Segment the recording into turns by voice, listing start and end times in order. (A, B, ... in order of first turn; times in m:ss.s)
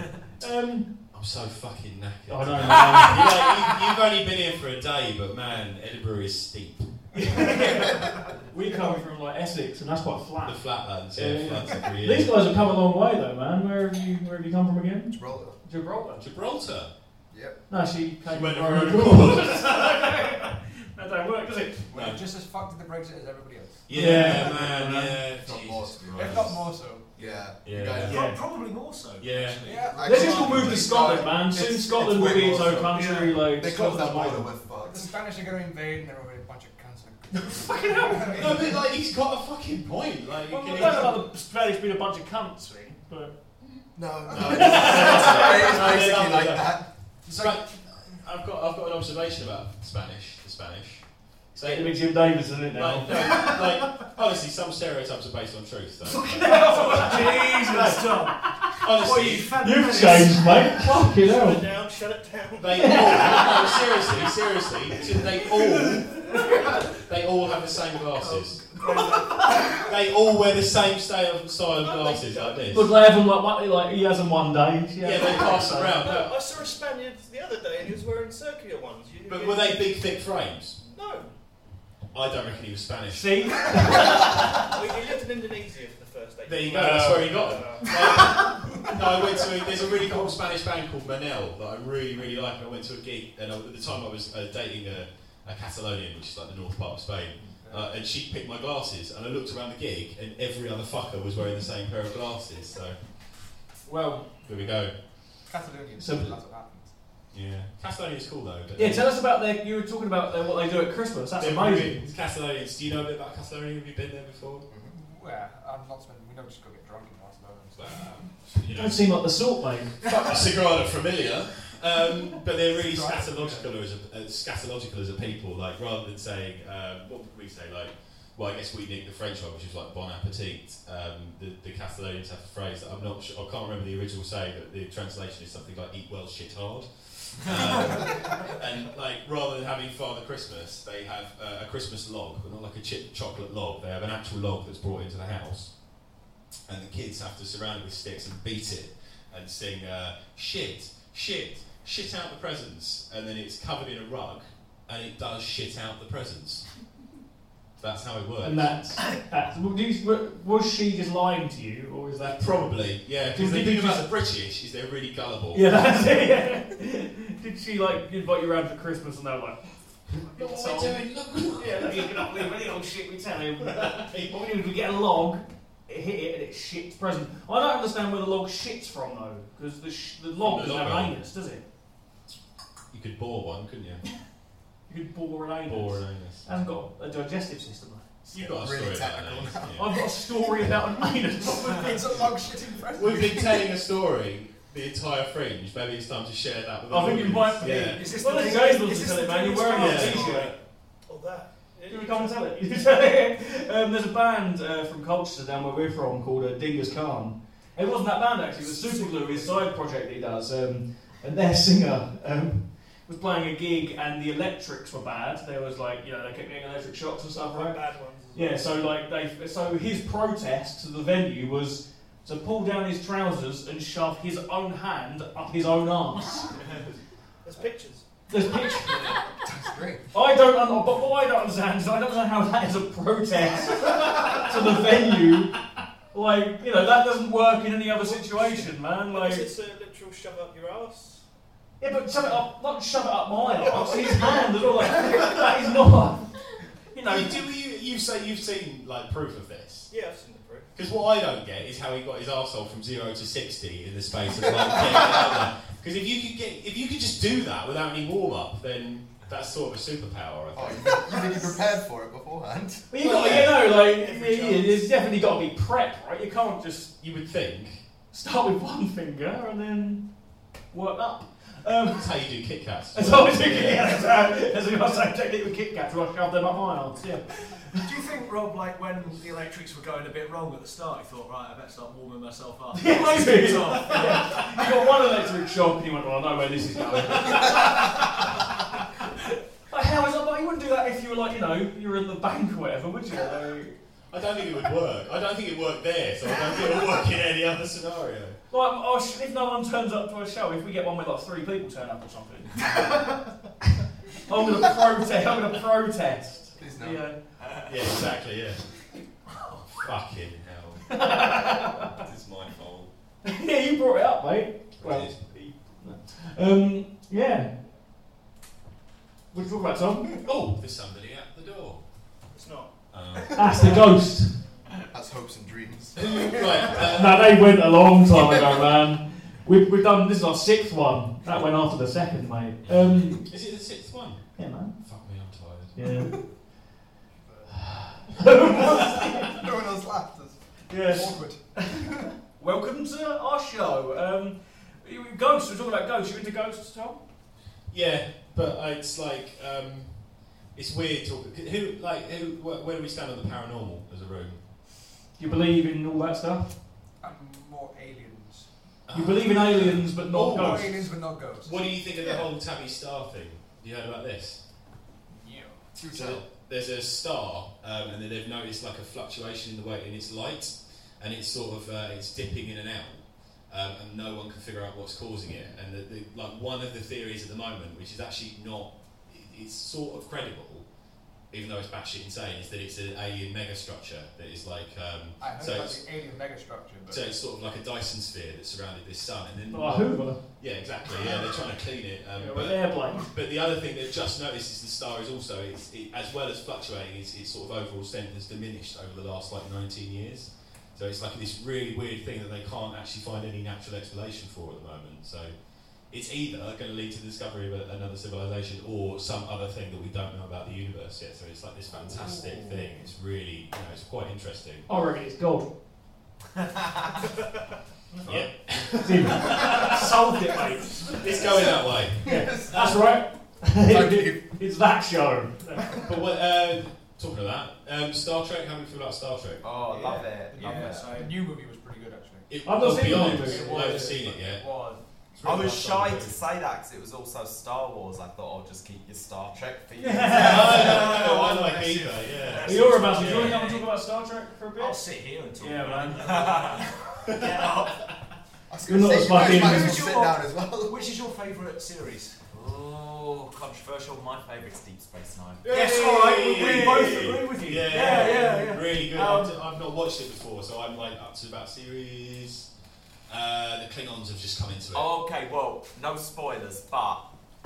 0:00.4-0:00.9 A
0:01.1-0:06.9 B
0:02.3-0:03.3 A
0:07.1-0:16.2 A
0:08.7-0:09.0 C
0:10.4-0:12.4 B
0:15.1-0:15.6 D
0:16.2-0:16.9 B
0:17.3-0:17.6 D
0:17.7-0:21.8 A
0:18.3-0:19.7 B
0:21.9-0:23.8 C
0:21.9-0:22.2 B
0:23.9-0:26.5 B
0:23.9-0:24.7 A
0:24.1-0:26.6 D
0:26.1-0:27.5 C
0:27.1-0:28.2 D
0:27.6-0:28.3 B
0:28.0-0:30.7 E
0:28.1-0:28.4 A
0:29.2-0:29.6 B
0:29.6-0:30.8 C
0:29.9-0:35.1 D
0:30.0-0:34.5 A
0:32.9-0:33.3 E
0:34.8-0:38.9 C
0:37.3-0:38.6 A
0:38.4-0:41.2 B
0:40.5-0:43.3 A
0:43.9-0:46.9 D
0:44.3-0:45.0 C
0:44.3-0:56.8 B
0:44.5-0:45.7 A
0:47.3-0:47.5 C
0:51.6-0:53.6 A
0:56.1-1:00.9 E
0:56.1-0:58.5 A
0:58.8-0:59.6 B
0:59.6-1:01.6 A
1:01.0-1:03.6 F
1:02.6-1:08.7 B
1:02.8-1:03.5 A
1:08.2-1:09.8 E
1:09.6-1:12.9 B
1:11.8-1:12.8 F
1:12.7-1:16.0 A
1:15.0-1:16.3 B
1:15.9-1:19.9 F
1:19.2-1:20.8 B
1:20.8-1:21.3 F
1:22.1-1:23.9 B
1:23.1-1:24.7 A
1:24.6-1:28.9 F
1:26.4-1:43.4 B
1:26.6-1:27.7 A
1:37.4-1:37.9 C
1:44.4-1:44.9 B
1:45.4-1:46.9 C
1:46.0-1:46.4 A
1:47.3-1:49.2 B
1:48.8-1:52.0 A
1:51.4-1:54.7 B
1:54.7-1:54.9 D
1:54.9-1:58.2 C
1:57.8-1:59.1 B
1:58.7-2:00.0 A
2:00.0-2:25.8 B
2:02.7-2:03.7 C
2:26.7-2:36.7 B
2:37.8-2:38.9 B
2:38.4-2:44.1 A
2:42.2-2:45.7 B
2:45.5-2:49.6 A
2:50.2-3:01.6 A
2:50.2-2:52.5 B
2:53.6-2:54.4 B
3:00.4-3:01.2 B
3:02.9-3:04.0 B
3:04.9-3:08.0 A
3:05.6-3:06.5 B
3:08.3-3:10.0 B
3:08.3-3:10.0 D
3:09.8-3:12.0 A
3:11.7-3:13.6 C
3:12.9-3:18.1 B
3:16.9-3:20.5 A
3:17.6-3:20.5 E
3:19.7-3:20.5 B
3:21.1-3:22.9 F
3:21.9-3:37.8 A
3:28.5-3:29.7 F
3:37.4-3:38.7 F
3:38.3-3:46.5 A
3:47.4-3:48.1 F
3:48.3-3:49.2 A
3:49.4-3:50.0 C
3:49.6-3:50.0 D
3:50.1-3:55.6 A
3:56.1-3:59.5 A
3:57.9-4:01.2 F
4:01.8-4:06.4 A
4:02.1-4:02.4 F
4:03.6-4:04.7 F
4:06.9-4:07.4 A
4:07.0-4:09.9 B
4:09.9-4:10.7 F
4:10.7-4:21.1 B
4:20.5-4:22.9 D
4:22.9-4:26.9 A
4:23.0-4:23.7 B
4:23.7-4:24.8 F
4:27.0-4:27.8 B
4:28.1-4:30.1 A
4:30.6-4:32.1 A
4:32.0-4:34.0 B
4:32.9-4:37.8 A
4:37.8-4:44.9 E
4:42.7-4:48.3 A
4:49.7-4:53.8 A
4:54.1-4:58.4 B
4:58.5-5:03.0 A
5:04.2-5:07.2 A
5:06.6-5:07.0 D
5:07.4-5:07.8 G
5:07.6-5:08.8 B
5:09.7-5:12.9 B
5:10.9-5:11.9 A
5:13.2-5:17.5 A
5:14.8-5:15.2 B
5:19.3-5:20.1 A
5:20.2-5:21.8 B
5:22.3-5:22.7 F
5:22.9-5:23.8 B
5:23.3-5:24.4 A
5:24.8-5:26.9 D
5:26.0-5:27.4 B
5:26.9-5:33.3 A
5:32.7-5:35.8 B
5:34.4-5:34.8 A
5:35.7-5:36.1 A
5:37.2-5:42.1 C
5:38.1-5:39.4 A
5:40.7-5:47.0 A
5:47.7-5:54.4 B
5:55.2-5:56.5 A
5:57.0-5:58.5 C
5:58.9-6:00.8 B
5:58.9-6:00.7 A
6:00.1-6:02.3 C
6:01.4-6:04.4 B
6:05.1-6:06.0 C
6:05.8-6:06.2 D
6:05.9-6:20.6 B
6:21.3-6:25.8 B
6:25.2-6:27.0 C
6:26.9-6:45.3 B
6:29.5-6:30.2 A
6:32.1-6:33.1 A
6:45.8-6:54.7 B
6:54.7-6:55.5 A
6:58.0-6:59.9 B
6:58.8-7:01.1 A
7:01.0-7:02.3 B
7:02.0-7:02.8 D
7:02.0-7:05.6 A
7:03.6-7:04.2 D
7:05.8-7:09.4 B
7:09.4-7:10.9 G
7:09.6-7:11.2 E
7:10.3-7:12.3 C
7:12.3-7:14.4 B
7:12.4-7:13.9 A
7:12.9-7:15.6 C
7:15.2-7:16.2 B
7:15.2-7:21.2 G
7:19.8-7:20.8 A
7:20.1-7:23.4 B
7:20.1-7:23.6 E
7:22.2-7:23.5 G
7:22.4-7:24.8 A
7:24.6-7:26.7 E
7:25.4-7:26.0 A
7:25.9-7:27.8 G
7:27.2-7:27.5 E
7:28.5-7:30.8 D
7:28.6-7:29.8 A
7:29.0-7:32.2 E
7:32.3-7:35.7 G
7:35.4-7:42.5 B
7:35.4-7:39.4 E
7:36.4-7:37.0 G
7:37.9-7:38.3 G
7:43.1-7:44.9 B
7:44.7-7:47.0 G